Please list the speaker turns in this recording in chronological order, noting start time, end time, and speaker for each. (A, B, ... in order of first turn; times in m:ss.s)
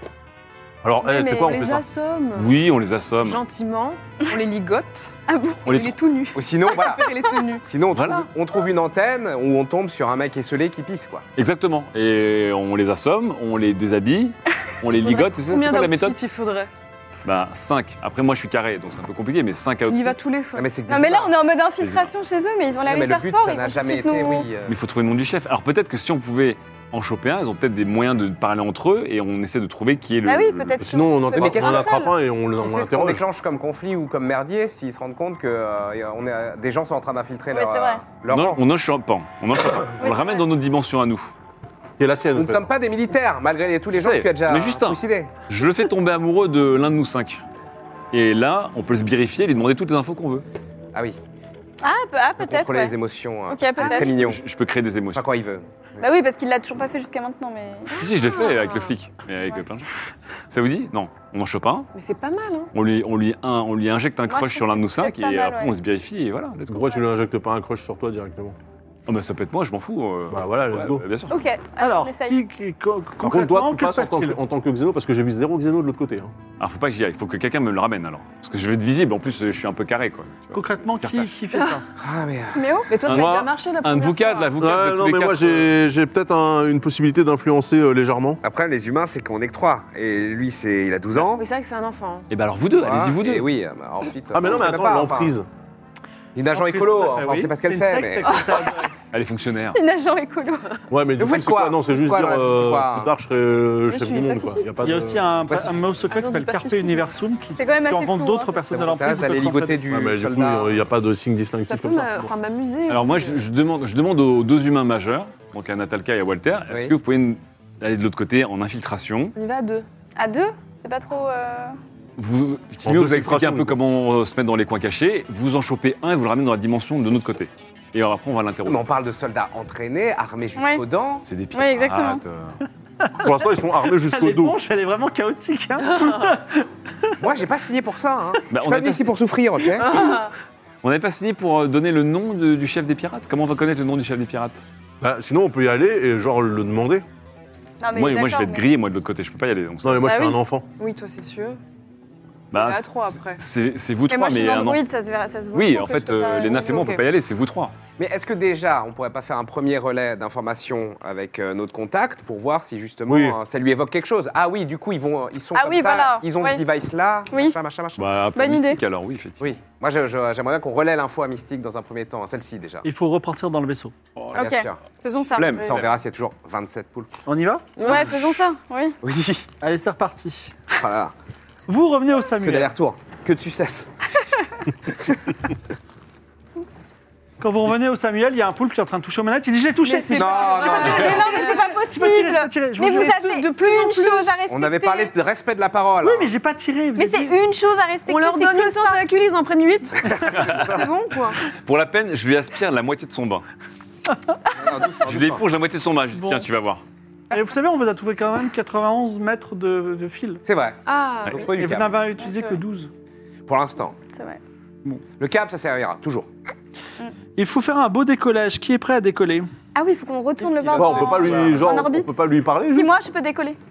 0:00.8-0:01.8 A
0:01.0-0:02.6 B
0:02.4-0:03.4 C
0:03.2-0:07.6 B
0:05.3-0:05.8 D
0:05.7-0:06.0 C
0:06.4-0:07.1 E
0:07.6-0:11.3 E
0:07.9-0:08.3 C
0:11.4-0:16.2 C
0:15.0-0:16.7 B
0:17.2-0:20.2 C
0:19.9-0:20.8 B
0:20.6-0:21.4 E
0:20.9-0:24.5 D
0:21.8-0:22.1 C
0:22.9-0:24.8 E
0:24.7-0:30.8 C
0:30.2-0:32.1 D
0:30.8-0:33.2 A
0:31.4-0:38.6 E
0:37.5-0:38.0 D
0:38.3-0:41.3 C
0:40.0-0:40.4 D
0:42.0-0:42.7 A
0:42.4-0:45.3 E
0:44.0-0:47.4 C
0:48.1-0:50.4 C
0:51.8-0:53.0 D
0:52.4-0:54.4 E
0:53.5-0:54.1 D
0:53.9-0:55.2 C
0:55.1-0:56.0 E
0:56.0-0:58.0 D
0:57.9-0:59.0 B
0:58.0-0:59.9 C
1:00.5-1:01.9 C
1:01.9-1:02.7 B
1:02.7-1:07.0 C
1:04.3-1:05.8 D
1:06.7-1:08.6 A
1:09.1-1:11.4 C
1:10.3-1:11.0 A
1:11.3-1:12.4 D
1:11.8-1:14.4 F
1:13.2-1:16.3 A
1:16.6-1:21.4 C
1:20.5-1:21.8 F
1:21.5-1:21.8 B
1:22.0-1:22.7 E
1:22.5-1:22.9 D
1:22.9-1:24.5 B
1:23.0-1:25.7 C
1:23.1-1:23.5 A
1:24.6-1:28.4 A
1:28.4-1:31.5 E
1:31.3-1:32.3 B
1:32.3-1:33.5 C
1:32.8-1:35.3 E
1:34.3-1:35.5 A
1:36.4-1:38.6 E
1:36.5-1:38.9 F
1:39.1-1:39.8 C
1:39.7-1:40.8 D
1:40.9-1:45.3 A
1:41.2-1:43.1 E
1:43.9-1:44.8 B
1:44.8-1:49.8 F
1:45.5-1:45.9 E
1:46.1-1:47.0 B
1:47.6-1:48.6 D
1:48.7-1:50.7 E
1:49.9-1:52.3 A
1:51.7-1:53.4 B
1:52.9-1:59.3 C
1:56.7-1:57.0 E
1:59.4-1:59.9 B
2:00.2-2:01.8 D
2:02.2-2:08.9 C
2:02.8-2:03.8 A
2:08.7-2:11.3 E
2:10.6-2:10.8 D
2:11.2-2:12.6 C
2:11.5-2:12.2 D
2:13.0-2:13.3 F
2:13.2-2:14.6 A
2:13.9-2:17.2 F
2:17.2-2:20.1 E
2:18.5-2:19.1 C
2:19.8-2:20.3 B
2:20.8-2:24.6 C
2:25.0-2:27.0 A
2:27.8-2:28.6 D
2:27.9-2:30.1 C
2:29.8-2:30.7 A
2:30.0-2:30.4 D
2:30.8-2:31.6 B
2:32.5-2:34.8 C
2:32.5-2:33.4 B
2:34.1-2:36.8 D
2:35.5-2:37.7 C
2:36.7-2:37.0 B
2:38.0-2:48.0 E
2:43.1-2:43.4 A
2:45.5-2:46.6 D
2:48.0-2:49.5 C
2:48.4-2:48.8 D
2:49.4-2:52.8 E
2:52.8-2:54.0 F
2:54.3-2:54.8 E
2:54.3-2:55.6 D
2:55.4-2:55.9 C
2:55.6-2:57.2 E
2:57.3-2:57.9 F
2:57.8-2:58.1 B
2:57.8-2:59.0 D
2:59.0-2:59.5 E
2:59.6-3:00.6 F
3:00.7-3:01.1 E
3:01.7-3:02.7 F
3:02.4-3:03.9 E
3:04.9-3:05.2 E
3:07.4-3:13.2 F
3:09.8-3:11.7 B
3:10.2-3:11.4 E
3:10.8-3:15.1 D
3:12.9-3:14.4 B
3:14.5-3:16.3 E
3:16.0-3:17.4 F
3:17.0-3:19.0 D
3:18.1-3:21.4 B
3:20.0-3:20.9 E
3:21.5-3:23.5 C
3:24.5-3:25.4 E
3:25.0-3:26.8 C
3:26.2-3:26.5 F
3:27.3-3:30.4 F
3:30.4-3:32.0 E
3:30.9-3:31.5 B
3:31.5-3:32.9 F
3:32.3-3:32.6 D
3:33.5-3:34.0 E
3:34.1-3:34.4 D
3:35.2-3:36.3 E
3:37.4-3:39.5 F
3:39.8-3:42.1 D
3:40.4-3:41.8 E
3:40.8-3:42.9 A
3:42.7-3:43.6 D